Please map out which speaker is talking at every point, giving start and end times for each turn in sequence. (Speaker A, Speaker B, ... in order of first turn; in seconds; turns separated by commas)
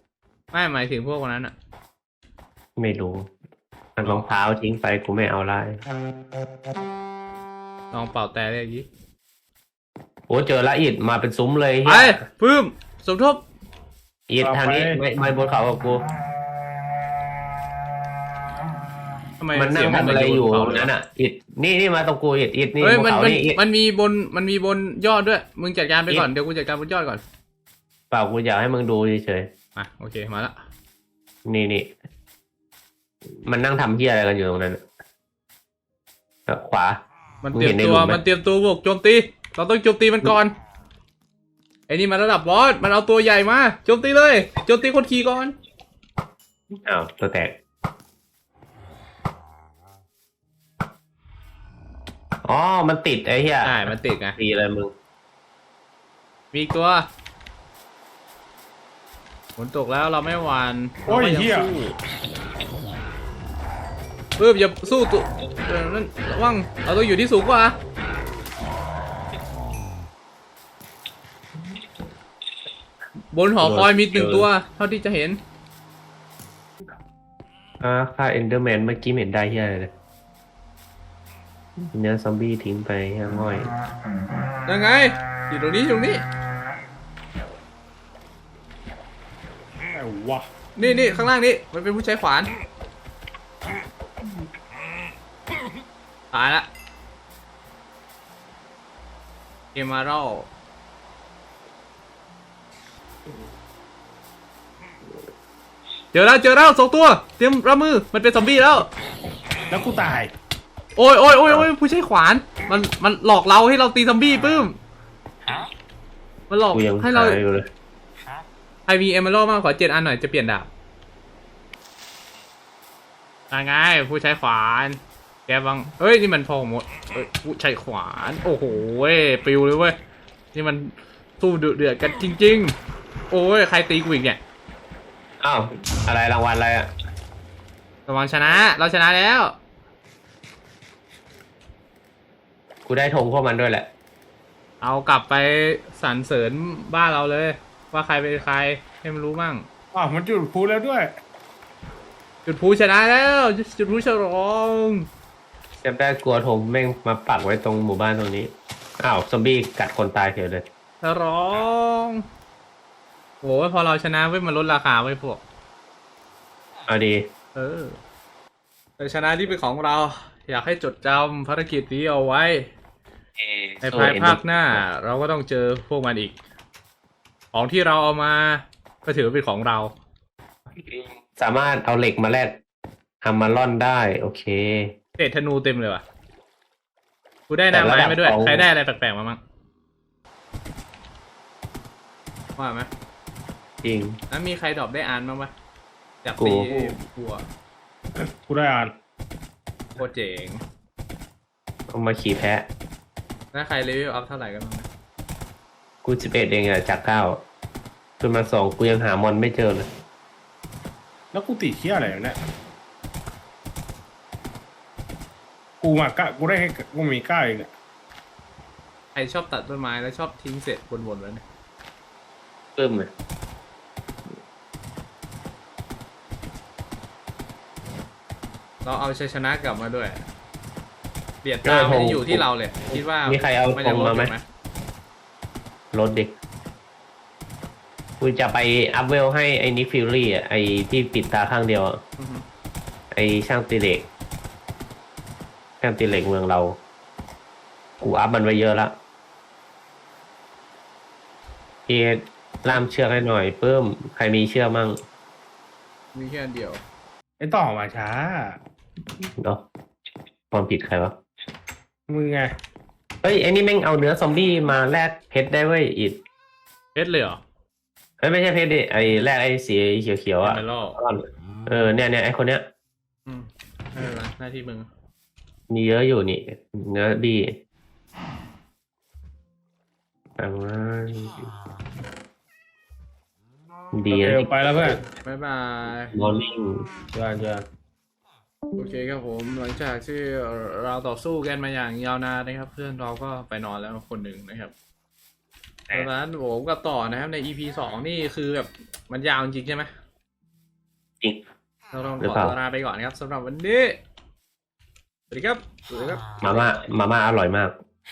Speaker A: 0.5-1.5, Speaker B: 2.8-3.3, Speaker B: 4.0-5.8, Speaker A: 7.9-8.8, Speaker B: 10.3-12.2, Speaker A: 11.8-13.4, Speaker B: 14.3-16.0, Speaker C: 14.4-15.0, Speaker A: 19.4-20.9, Speaker B: 19.5-23.6, Speaker A: 22.8-27.2, Speaker B: 28.1-29.5, Speaker A: 29.8-30.5, Speaker B: 31.4-31.9, Speaker B: 33.3-34.8, Speaker B: 36.5-37.0, Speaker A: 37.4-40.5, Speaker B: 37.5-38.2, Speaker A: 41.9-45.5, Speaker B: 46.7-47.5, Speaker B: 52.4-54.9, Speaker A: 53.6-54.4, Speaker A: 56.5-57.1, Speaker A: 59.6-61.9, Speaker C: 61.1-61.7, Speaker A: 64.4-67.7, Speaker A: 73.3-75.4, Speaker B: 73.6-74.5, Speaker B: 77.8-79.9, Speaker B: 81.9-83.7, Speaker A: 84.7-86.2, Speaker C: 89.9-90.5, Speaker A: 90.8-92.5, Speaker A: 96.3-96.7, Speaker A: 99.7-100.5, Speaker A: 106.1-108.9, Speaker C: 109.7-110.3, Speaker A: 111.0-114.8, Speaker A: 116.5-117.4, Speaker B: 116.7-117.7, Speaker A: 118.9-120.7, Speaker A: 123.5-129.9, Speaker A: 130.5-132.7, Speaker A: 133.3-134.4, Speaker B: 135.4-136.9, Speaker A: 138.1-139.5, Speaker B: 142.8-143.9, Speaker A: 144.8-149.7, Speaker C: 149.9-151.1, Speaker A: 152.4-155.1, Speaker B: 155.8-160.6, Speaker A: 161.0-162.2, Speaker A: 163.4-165.4, Speaker B: 166.9-167.2, Speaker A: 167.5-168.0, Speaker A: 169.0-172.7, Speaker B: 173.4-174.8, Speaker A: 173.8-176.3, Speaker A: 177.5-179.9, Speaker B: 180.7-182.5, Speaker B: 183.2-184.9, Speaker A: 185.2-186.0, Speaker A: 187.5-189.4, Speaker B: 187.7-188.6, Speaker A: 192.6-192.9, Speaker B: 193.8-194.2, Speaker A: 194.3-195.5, Speaker A: 196.2-197.4, Speaker B: 196.4-196.9, Speaker C: 198.2-198.9, Speaker A: 200.0-200.6, Speaker B: 201.9-202.7, Speaker A: 203.5-204.9, Speaker B: 206.0-207.4, Speaker B: 208.2-209.9, Speaker C: 211.3-212.4, Speaker C: 215.8-217.7, Speaker A: 219.1-221.4, Speaker B: 222.7-223.1, Speaker A: 228.8-230.2, Speaker A: 231.4-234.4, Speaker B: 231.6-232.4, Speaker B: 232.9-234.3, Speaker B: 235.9-236.3, Speaker B: 238.2-242.0, Speaker A: 242.2-242.4, Speaker B: 243.1-244.1, Speaker B: 245.8-246.8, Speaker B: 248.0-248.9, Speaker B: 251.9-255.0, Speaker A: 256.1-256.8, Speaker C: 257.4-258.6, Speaker B: 260.5-261.1, Speaker C: 262.1-262.5, Speaker B: 263.2-266.2, Speaker A: 266.9-267.4, Speaker B: 268.2-272.6, Speaker A: 270.4-271.0, Speaker A: 273.3-274.9, Speaker B: 275.7-277.5, Speaker B: 280.4-281.5, Speaker B: 283.9-285.0, Speaker C: 284.1-285.0, Speaker A: 285.2-286.1, Speaker B: 286.1-287.6, Speaker A: 288.8-294.7, Speaker A: 295.9-299.9, Speaker A: 301.9-304.0, Speaker B: 302.2-302.5, Speaker A: 305.3-306.7, Speaker B: 306.4-307.7